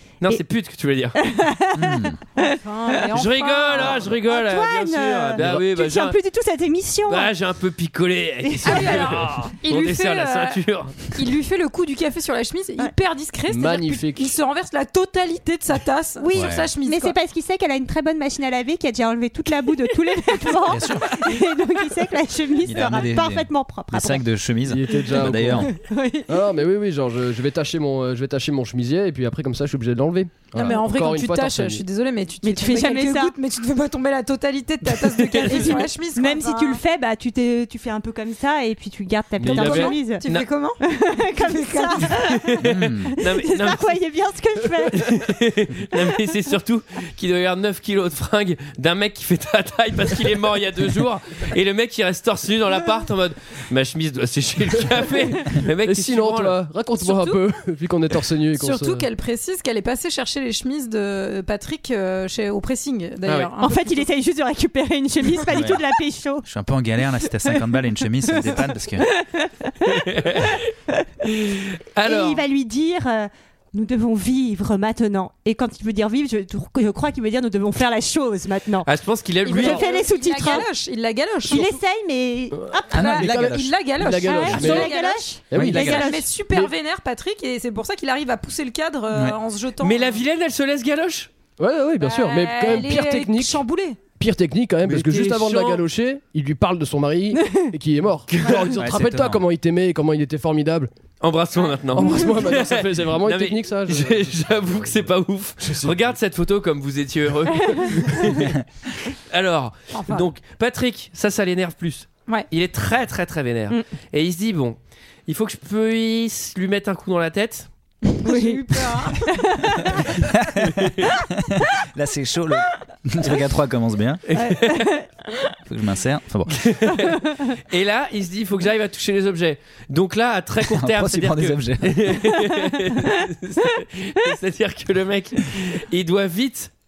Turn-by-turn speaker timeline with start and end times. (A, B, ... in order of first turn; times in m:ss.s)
0:00.2-0:01.2 A
0:01.2-0:03.1 B
0:01.8-0:02.2 C
0:02.4-0:04.2 D
0:03.1-0:06.2 A
0:03.8-0:07.3 B
0:07.1-0:10.9 A
0:08.6-0:17.2 D
0:08.7-0:09.0 B
0:13.5-0:14.4 E
0:16.2-0:24.2 B
0:16.4-0:16.7 C
0:20.7-0:21.1 C
0:22.6-0:25.7 C
0:24.6-0:25.7 E
0:25.7-0:26.3 B
0:26.3-0:31.8 E
0:30.5-0:36.8 D
0:32.4-0:33.4 B
0:35.4-0:40.3 B
0:39.4-0:40.0 E
0:39.5-0:40.8 D
0:39.5-0:40.5 A
0:40.8-0:42.6 B
0:41.3-0:42.1 D
0:42.4-0:44.0 A
0:42.6-0:43.2 C
0:43.2-0:45.2 B
0:44.9-0:56.6 A
0:55.8-0:59.1 E
0:57.0-0:57.4 D
0:58.6-1:04.1 D
1:03.6-1:06.5 B
1:05.5-1:05.8 C
1:06.4-1:09.1 C
1:08.4-1:18.9 B
1:09.9-1:10.7 A
1:11.9-1:12.4 A
1:18.8-1:19.8 A
1:19.4-1:21.8 D
1:19.5-1:20.7 B
1:21.5-1:23.0 B
1:22.5-1:24.9 E
1:22.9-1:30.2 D
1:22.9-1:23.7 C
1:24.2-1:26.3 B
1:25.5-1:26.0 E
1:25.5-1:26.0 C
1:29.8-1:31.3 A
1:31.6-1:33.6 E
1:32.0-1:34.0 D
1:34.2-1:40.9 E
1:34.8-1:35.8 A
1:38.3-1:38.8 A
1:38.8-1:39.4 C
1:41.2-1:48.5 A
1:41.9-1:46.2 E
1:49.3-1:57.7 A
1:49.9-1:50.3 D
1:58.2-1:59.2 D
1:58.2-2:00.2 B
2:00.2-2:04.2 C
2:00.8-2:01.1 A
2:04.3-2:04.9 A
2:04.4-2:05.3 B
2:05.7-2:06.8 C
2:06.6-2:16.7 A
2:10.7-2:12.4 C